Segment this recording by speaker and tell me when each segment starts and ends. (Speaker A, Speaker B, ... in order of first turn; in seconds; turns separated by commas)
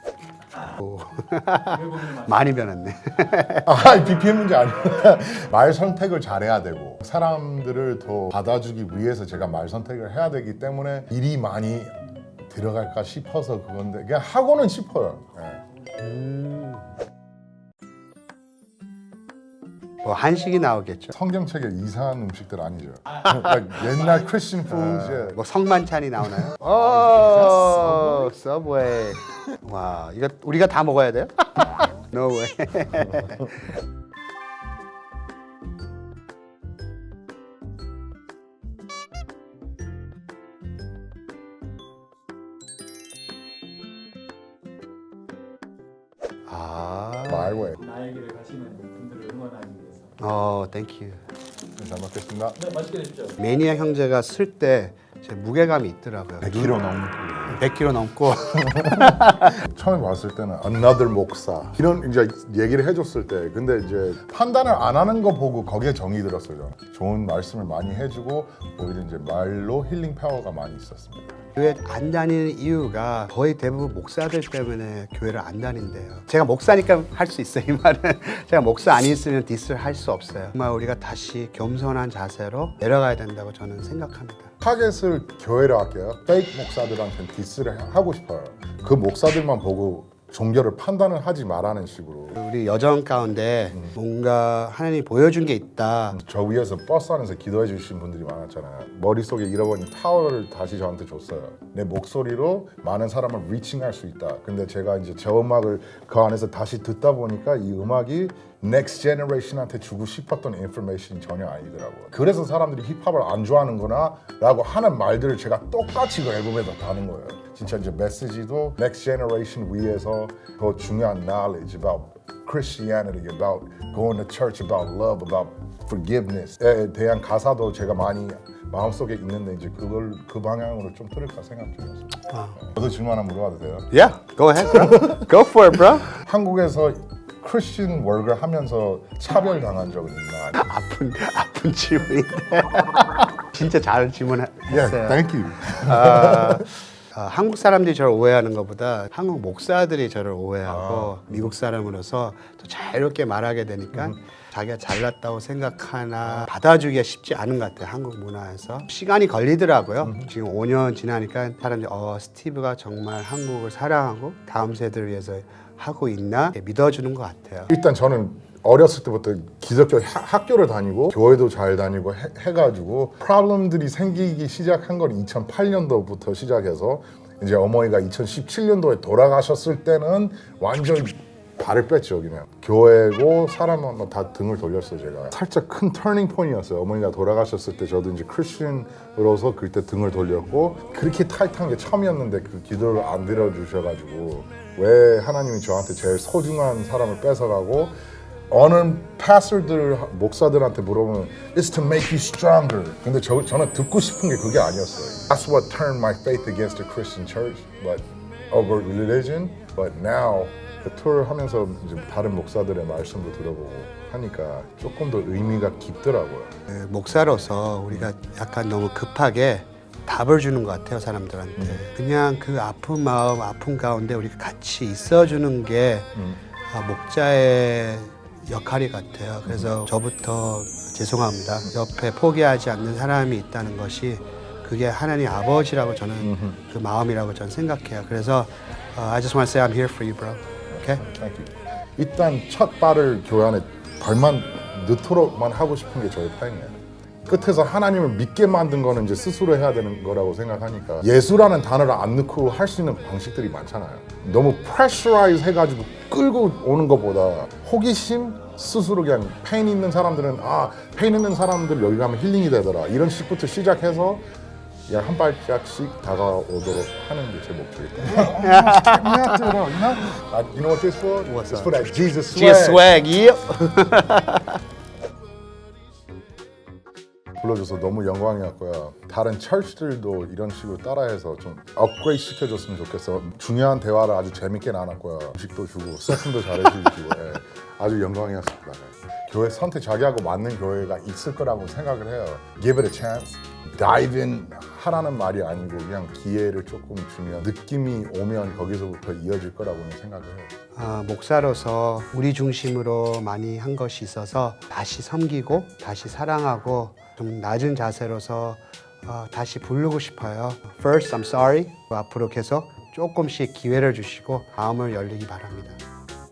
Speaker A: 0.8-3.7, Speaker B: 1.7-2.6, Speaker C: 3.6-15.6, Speaker A: 16.0-16.8, Speaker A: 20.0-21.1, Speaker C: 21.1-25.4, Speaker A: 24.7-33.7, Speaker C: 26.8-28.3, Speaker A: 46.5-47.7, Speaker C: 47.3-47.8, Speaker B: 47.8-50.1, Speaker A: 50.2-51.2, Speaker C: 51.8-52.6, Speaker B: 52.5-53.4, Speaker A: 53.4-56.9, Speaker C: 56.4-57.6, Speaker A: 57.5-59.6, Speaker C: 58.6-71.4, Speaker A: 71.5-84.5, Speaker C: 84.6-92.4, Speaker A: 92.3-96.2, Speaker C: 96.1-133.9, Speaker A: 132.3-132.6, Speaker A: 133.9-136.1, Speaker C: 134.8-135.2, Speaker C: 136.1-140.7, Speaker A: 140.6-167.7, Speaker C: 144.7-146.6, Speaker C: 150.7-151.5, Speaker C: 160.0-160.3, Speaker C: 167.7-197.9, Speaker C: 198.5-216.5, Speaker A: 216.7-226.1, Speaker C: 226.2-226.4, Speaker A: 226.7-241.0, Speaker C: 236.2-236.6, Speaker C: 240.7-264.2, Speaker C: 264.9-272.9, Speaker A: 268.1-269.6, Speaker A: 271.3-271.7, Speaker A: 272.3-274.6, Speaker C: 277.4-300.5, Speaker A: 300.7-315.8